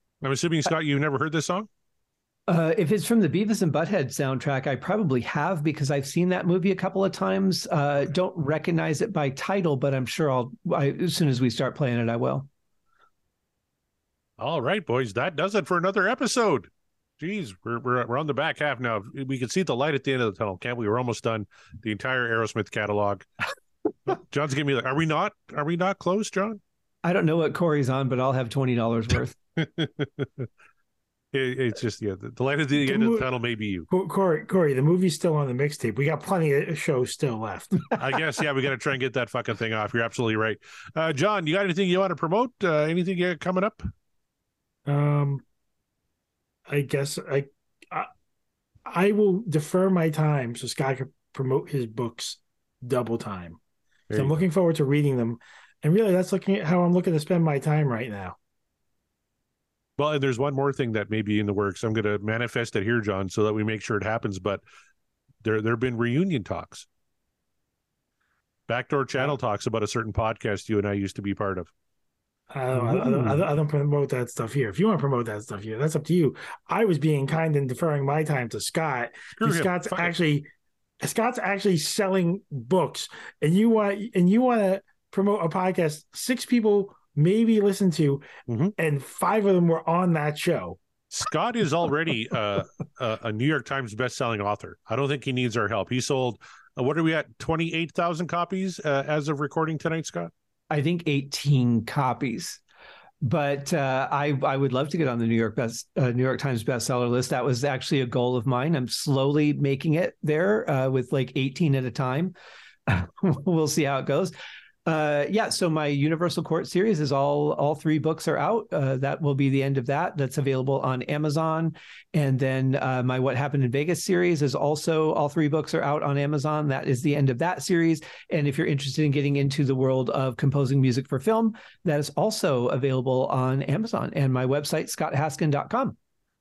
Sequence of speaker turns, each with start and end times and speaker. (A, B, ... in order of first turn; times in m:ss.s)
0:00.2-0:01.7 A
0:02.5-0:12.5 B
0:14.4-0:23.2 A
0:24.0-0:26.6 A
0:27.0-0:29.4 B
0:29.6-0:30.5 A
0:31.3-0:33.9 A
0:32.8-0:33.3 C
0:33.9-0:37.9 C
0:37.9-0:43.8 A
0:44.8-0:45.4 C
0:46.7-0:48.1 C
0:48.8-0:53.6 C
0:54.1-0:54.4 A
0:54.1-0:58.4 C
1:00.0-1:04.6 A
1:05.4-1:06.9 A
1:08.7-1:11.7 A
1:12.5-1:20.4 C
1:12.9-1:13.3 A
1:19.4-1:20.1 A
1:21.0-1:28.3 C
1:28.5-1:28.7 A
1:28.8-1:30.8 C
1:31.1-1:40.3 A
1:40.7-1:42.6 B
1:43.2-1:52.3 B
1:52.9-1:54.3 B
1:54.8-2:16.0 B